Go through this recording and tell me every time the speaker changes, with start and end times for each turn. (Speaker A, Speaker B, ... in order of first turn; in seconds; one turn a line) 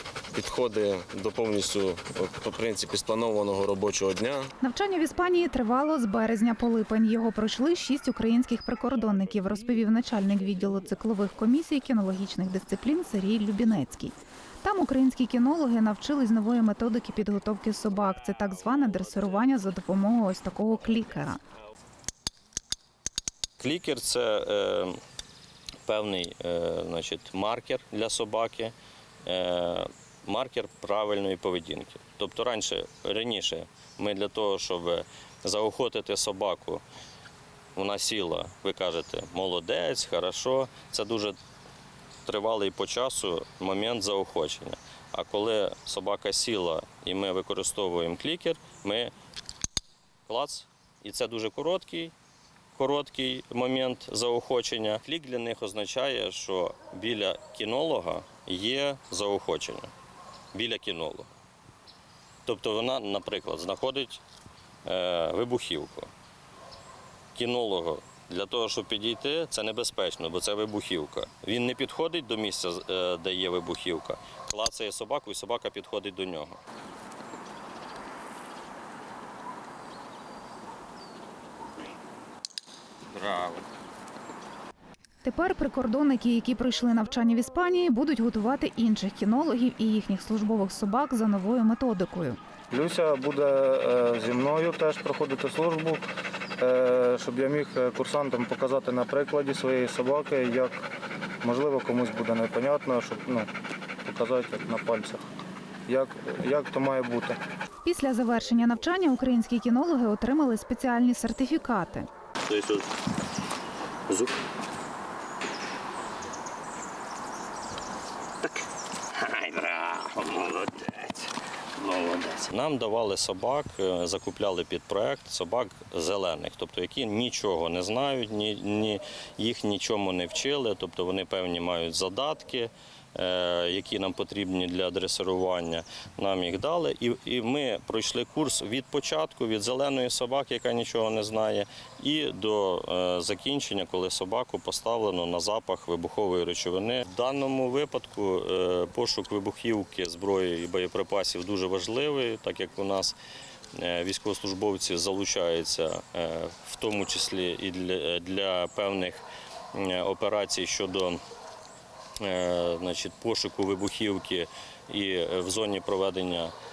Speaker A: 0.3-4.5
Speaker B: 4.6-21.4
Speaker C: 23.6-25.0
Speaker C: 25.9-28.7
Speaker C: 29.3-36.8
Speaker C: 37.8-41.4
Speaker C: 42.3-49.1
Speaker C: 50.3-52.1
Speaker C: 52.8-59.9
Speaker C: 60.5-61.3
Speaker C: 62.5-64.2
Speaker C: 64.9-66.1
Speaker C: 67.3-76.6
Speaker C: 83.1-83.6
Speaker B: 85.2-92.4
Speaker D: 92.7-96.0
Speaker D: 96.6-100.9
Speaker D: 101.4-103.5
Speaker D: 104.0-105.2
Speaker D: 105.9-107.4
Speaker B: 107.8-112.1
Speaker C: 112.5-112.8
Speaker C: 119.2-121.2
Speaker C: 121.8-153.2
Speaker C: 153.8-161.2
Speaker C: 162.2-166.5